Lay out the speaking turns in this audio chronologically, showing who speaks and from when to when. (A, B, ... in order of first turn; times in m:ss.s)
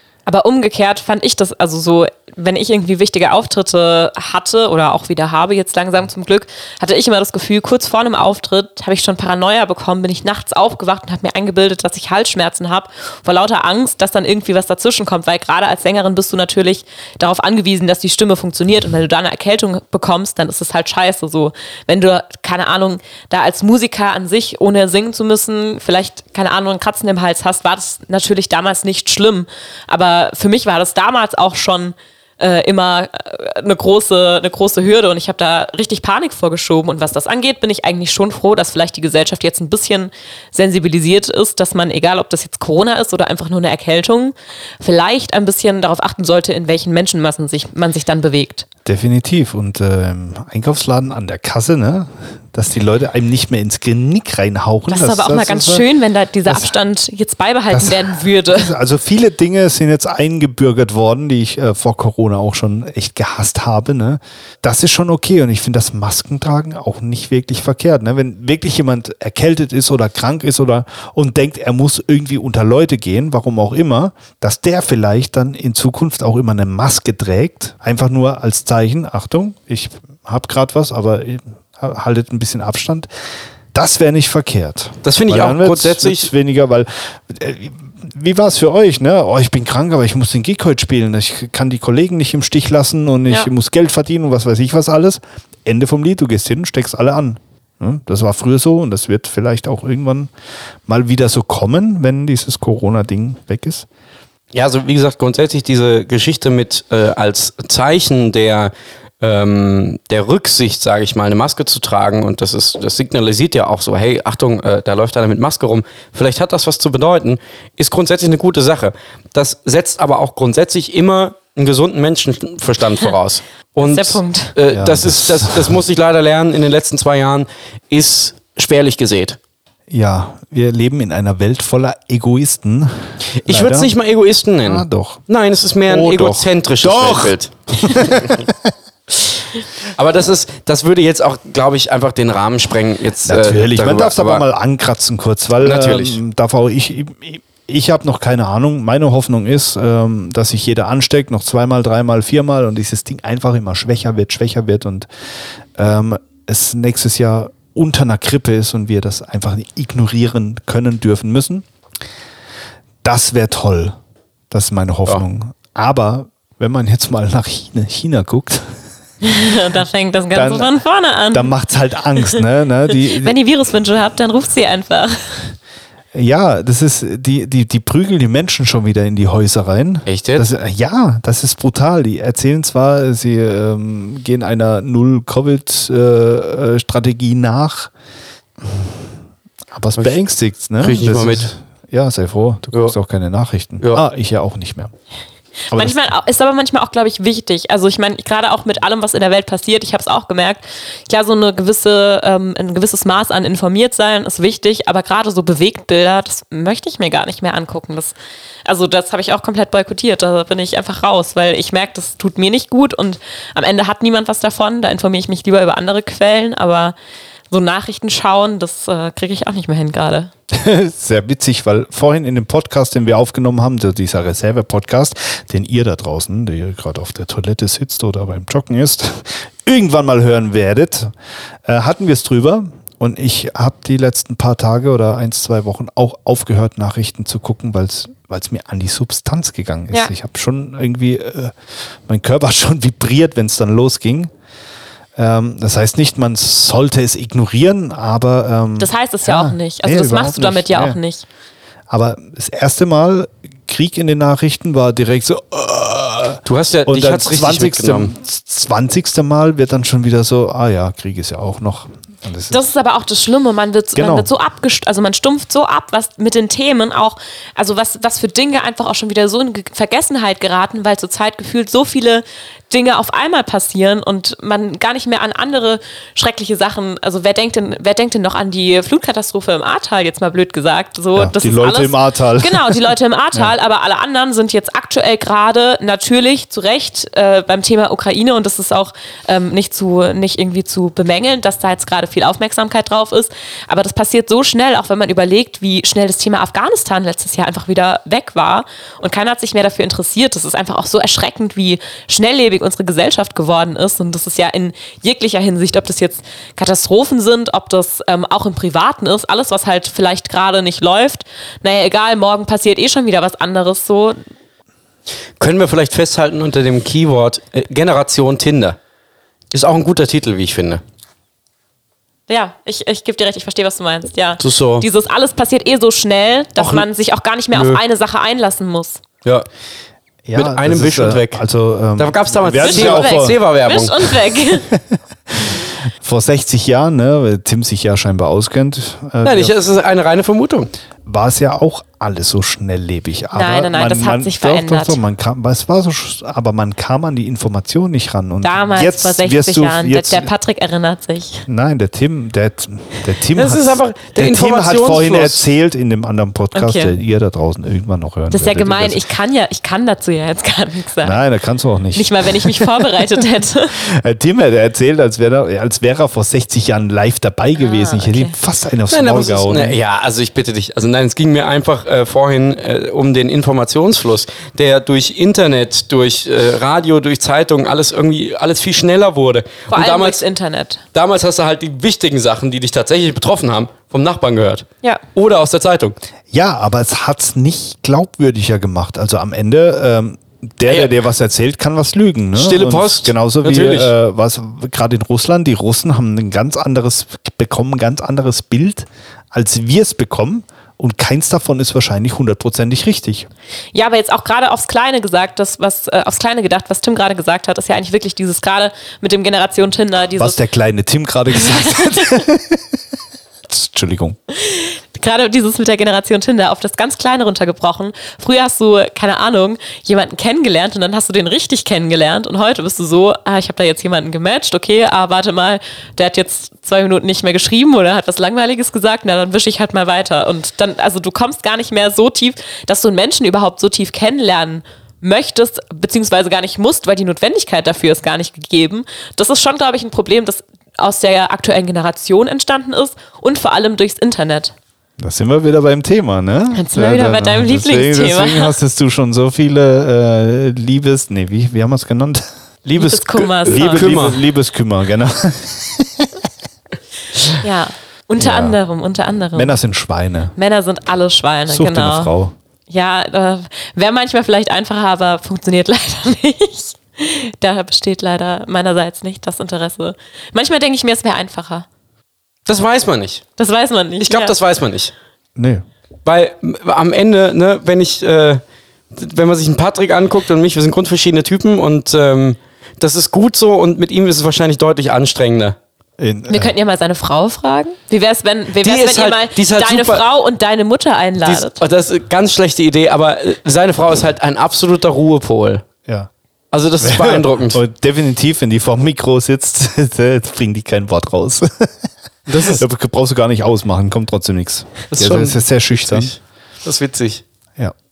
0:00.3-0:48.7 A
0:48.8-0:55.9 B
0:54.9-0:58.7 A
0:56.5-0:56.7 B
0:57.7-1:23.1 B
1:23.7-1:40.3 B
1:25.0-1:26.3 C
1:40.9-1:43.9 B
1:44.5-2:09.4 C
2:03.8-2:04.6 A
2:04.7-2:05.8 B
2:09.9-2:13.9 B
2:13.4-2:18.5 C
2:14.6-2:15.2 B
2:15.9-2:18.7 B
2:19.8-2:24.4 C
2:23.2-2:35.1 B
2:25.6-2:26.2 C
2:35.8-2:41.6 B
2:43.0-2:44.0 B
2:44.5-2:48.8 B
2:49.2-2:51.5 A
2:50.3-2:50.7 B
2:51.3-2:53.4 B
2:53.1-2:55.4 A
2:56.1-3:07.9 B
3:00.1-3:00.5 C
3:08.6-3:09.0 B
3:09.7-3:14.9 B
3:10.8-3:11.5 C
3:15.7-3:16.0 B
3:15.7-3:37.0 A
3:37.5-3:40.3 A
3:40.5-3:51.1 B
3:51.7-4:01.5 B
4:02.1-4:04.3 B
4:05.2-4:11.0 B
4:08.8-4:11.2 A
4:11.9-4:22.6 B
4:16.4-4:18.1 C
4:22.5-5:14.2 A
4:24.0-4:24.3 B
4:41.2-4:43.5 B
5:15.4-5:18.8 C
5:19.5-5:20.8 C
5:22.3-5:29.0 A
5:24.4-5:24.9 C
5:26.6-5:26.9 C
5:27.5-5:27.8 C
5:30.3-5:33.4 B
5:30.4-5:31.4 C
5:32.0-5:34.1 C
5:32.6-5:34.7 A
5:35.3-5:39.6 B
5:39.2-5:40.7 C
5:41.0-5:50.3 B
5:43.3-5:45.0 A
5:48.4-5:51.4 A
5:51.5-5:59.0 B
5:53.4-5:55.5 C
5:56.6-5:57.0 A
5:58.3-6:01.2 A
6:01.0-6:02.8 B
6:02.0-6:03.8 A
6:03.7-6:09.8 B
6:07.6-6:08.3 A
6:08.9-6:20.2 C
6:19.7-6:20.8 A
6:20.9-6:26.0 C
6:26.3-6:43.3 B
6:30.7-6:30.9 C
6:32.4-6:33.9 C
6:43.7-6:50.4 A
6:50.2-6:52.6 B
6:53.5-6:54.2 B
6:54.4-7:24.5 A
7:25.0-7:36.1 B
7:26.5-7:28.5 A
7:32.8-7:33.9 A
7:33.4-7:34.2 C
7:37.4-7:39.6 A
7:38.2-7:38.6 B
7:39.3-7:40.3 B
7:40.4-7:42.1 A
7:41.5-7:42.3 B
7:42.7-7:51.7 A
7:52.5-7:53.2 C
7:53.4-7:54.4 A
7:54.0-7:54.9 C
7:55.4-7:55.6 B
7:56.0-8:05.6 C
8:06.0-8:06.5 B
8:06.3-8:11.6 A
8:08.6-8:10.1 C
8:11.2-8:15.6 C
8:16.5-8:17.6 C
8:16.8-8:21.7 B
8:22.3-8:22.6 C
8:22.4-8:26.1 B
8:24.9-8:27.2 C